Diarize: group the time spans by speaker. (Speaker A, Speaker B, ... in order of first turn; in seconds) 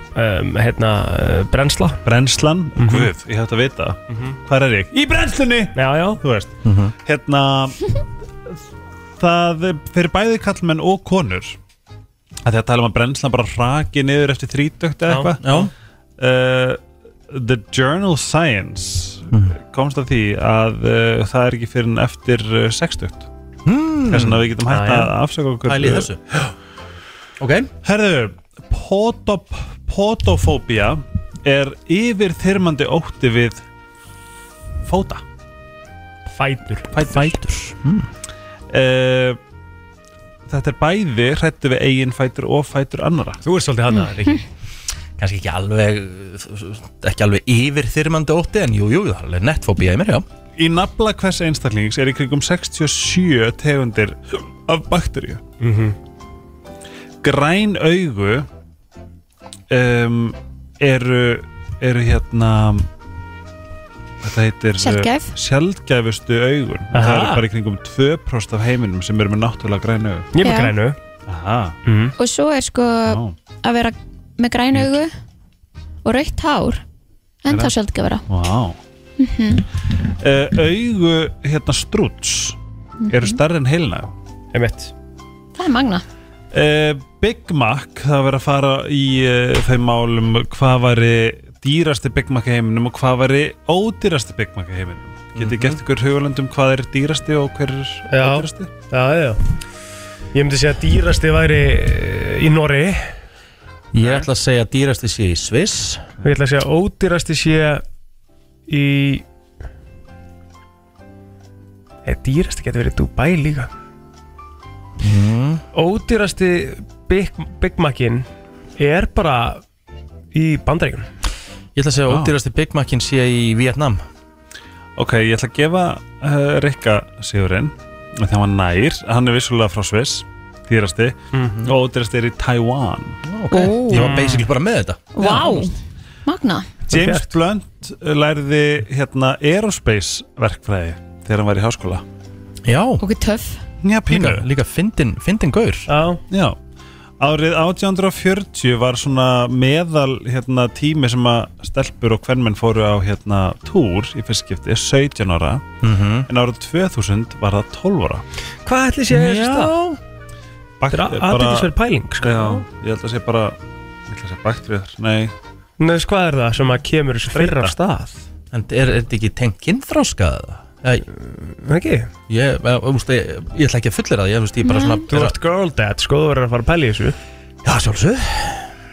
Speaker A: 0.1-2.0, 2.8-3.1, 4.1-4.4, 5.7-6.2, 15.1-15.7, 24.7-25.1, 36.3-36.9, 43.4-44.4, 55.6-56.0, 66.9-67.4, 70.3-71.0, 71.8-72.1, 84.5-84.9, 98.1-99.5, 100.3-103.1, 106.2-107.8, 108.7-109.2, 112.0-113.7, 115.7-118.3, 118.8-119.6, 120.3-121.1, 133.9-134.5, 135.2-135.7, 136.9-137.3, 145.9-146.2, 158.7-159.7, 160.9-162.6, 165.8-168.2, 171.1-172.1, 175.1-177.2
Speaker B: 2.0-8.0, 9.2-11.6, 12.4-15.6, 16.2-23.3, 24.1-26.2, 27.8-33.6, 34.8-35.2, 36.9-37.3, 38.7-39.4, 40.5-43.4, 50.6-55.4, 57.2-58.5, 59.7-62.9, 64.2-70.3, 71.3-71.7, 73.1-73.3, 77.5-77.7, 78.3-78.8, 80.2-82.6, 83.1-84.1, 86.5-98.7, 104.0-104.3, 125.0-133.2, 136.9-142.0, 143.8-144.4, 146.3-146.6, 147.2-155.7, 156.3-158.2, 160.8-165.3, 167.3-167.7
Speaker C: 6.6-6.9, 15.4-15.7, 23.6-24.4, 25.7-26.5, 27.4-27.7, 37.1-38.1, 45.2-50.2, 95.4-95.8, 103.9-106.0, 115.0-115.6, 121.8-124.0, 133.2-135.1, 142.6-143.0, 144.1-145.9, 155.8-156.3, 159.1-160.0, 168.5-171.0, 172.3-175.3, 177.6-178.7
Speaker D: 43.9-44.3, 64.8-65.3, 70.4-70.7, 72.2-75.1, 76.0-76.8, 77.4-78.2, 79.2-79.6, 83.0-83.3, 85.5-86.0, 133.5-134.2, 135.1-135.7, 136.2-136.7, 143.0-143.6, 174.6-175.1